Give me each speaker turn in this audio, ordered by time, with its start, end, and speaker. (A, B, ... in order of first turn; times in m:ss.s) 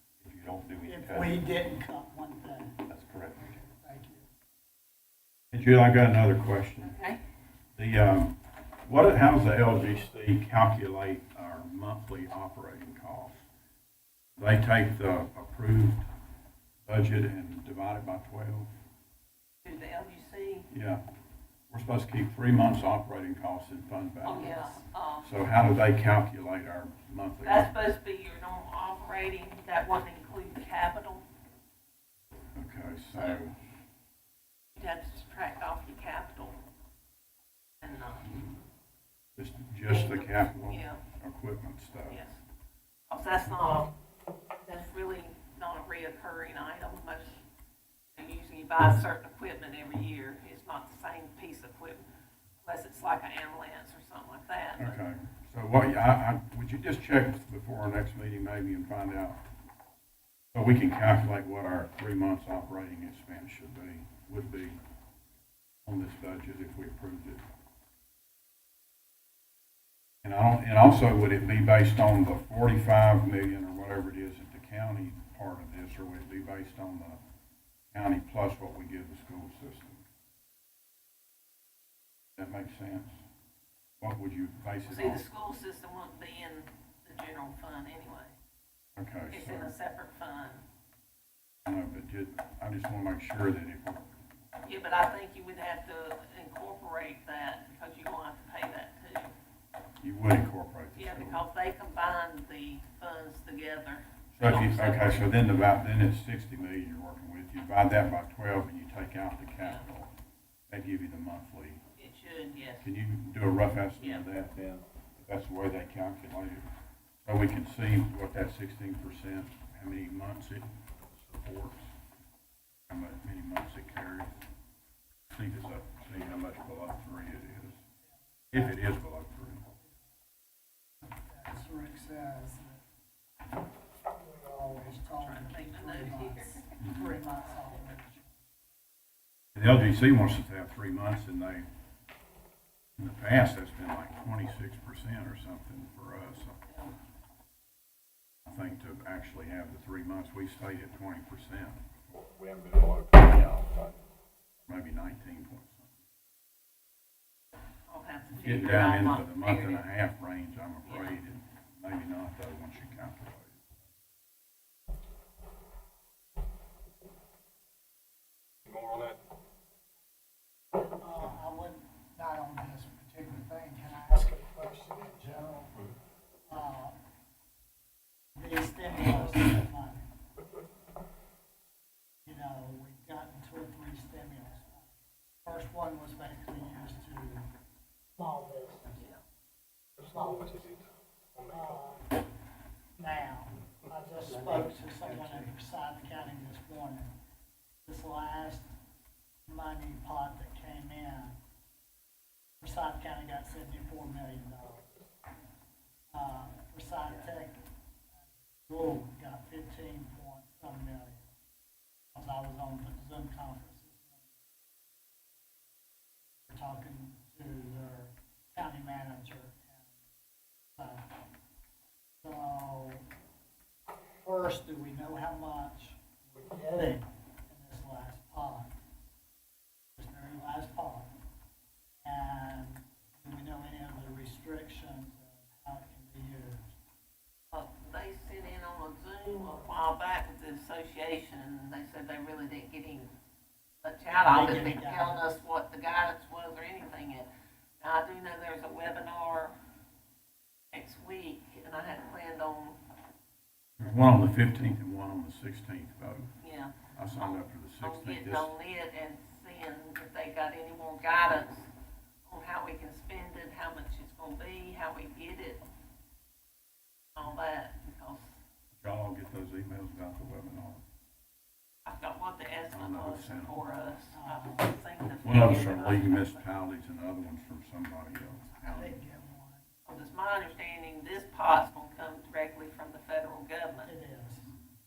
0:00.2-0:01.4 A
0:00.8-0:04.3 B
0:02.9-0:03.4 A
0:05.5-0:07.0 A
0:06.8-0:07.2 C
0:07.8-0:13.4 A
0:14.4-0:16.0 A
0:16.9-0:18.7 A
0:19.6-0:20.7 C
0:20.7-0:21.0 A
0:21.7-0:24.6 A
0:24.2-0:25.3 C
0:25.2-0:27.7 A
0:27.4-0:31.3 C
0:32.6-0:33.6 A
0:34.8-0:36.6 C
0:37.8-0:38.5 C
0:39.4-0:42.2 A
0:39.9-0:41.0 C
0:42.1-0:42.4 C
0:43.1-0:43.9 C
0:44.7-0:47.4 C
0:48.2-0:52.0 C
0:52.6-0:55.0 C
0:54.8-0:59.4 A
1:00.5-1:04.8 A
1:05.8-1:07.4 A
1:10.2-1:17.2 A
1:17.9-1:20.0 A
1:22.4-1:23.1 A
1:24.0-1:25.2 A
1:24.9-1:28.4 C
1:29.0-1:29.7 A
1:29.3-1:30.6 C
1:31.6-1:34.1 A
1:34.6-1:39.4 C
1:40.0-1:41.4 A
1:41.0-1:45.3 C
1:44.4-1:50.1 A
1:50.7-1:51.8 A
1:52.0-1:52.9 C
1:52.8-1:56.6 A
1:54.0-1:54.3 C
1:57.2-2:01.9 A
2:02.9-2:04.4 A
2:05.3-2:07.8 A
2:08.5-2:08.8 B
2:08.5-2:09.6 A
2:11.0-2:12.8 B
2:14.2-2:18.3 B
2:15.2-2:16.7 C
2:16.8-2:17.2 A
2:19.6-2:21.7 A
2:23.0-2:26.6 A
2:28.4-2:31.8 A
2:32.4-2:33.8 D
2:33.3-2:33.6 A
2:34.7-2:35.9 A
2:37.9-2:39.8 C
2:38.3-2:43.6 A
2:40.8-2:41.2 C
2:48.7-2:49.2 D
2:50.8-2:55.8 B
2:56.5-2:57.0 B
2:58.4-3:00.1 B
3:02.3-3:04.9 B
3:05.4-3:07.5 B
3:08.2-3:09.0 B
3:10.0-3:10.8 B
3:10.2-3:10.7 D
3:11.5-3:12.2 B
3:13.0-3:17.1 B
3:17.8-3:18.7 B
3:19.5-3:21.4 B
3:22.6-3:24.9 B
3:26.1-3:27.6 B
3:28.7-3:31.3 B
3:32.1-3:34.2 B
3:36.5-3:39.8 B
3:40.8-3:41.1 B
3:42.2-3:43.0 B
3:44.2-3:48.8 B
3:50.0-3:51.1 B
3:52.0-3:56.7 B
3:57.5-4:03.1 C
4:03.8-4:07.3 C
4:04.2-4:05.3 B
4:07.8-4:09.6 C
4:10.7-4:12.8 C
4:13.8-4:16.3 A
4:16.4-4:21.7 C
4:16.9-4:18.5 A
4:22.3-4:25.6 C
4:27.2-4:28.3 C
4:28.8-4:30.8 A
4:31.9-4:36.4 C
4:32.7-4:33.6 A
4:34.1-4:34.7 B
4:35.0-4:39.0 A
4:38.5-4:40.0 B
4:39.9-4:43.9 C
4:43.8-4:44.5 B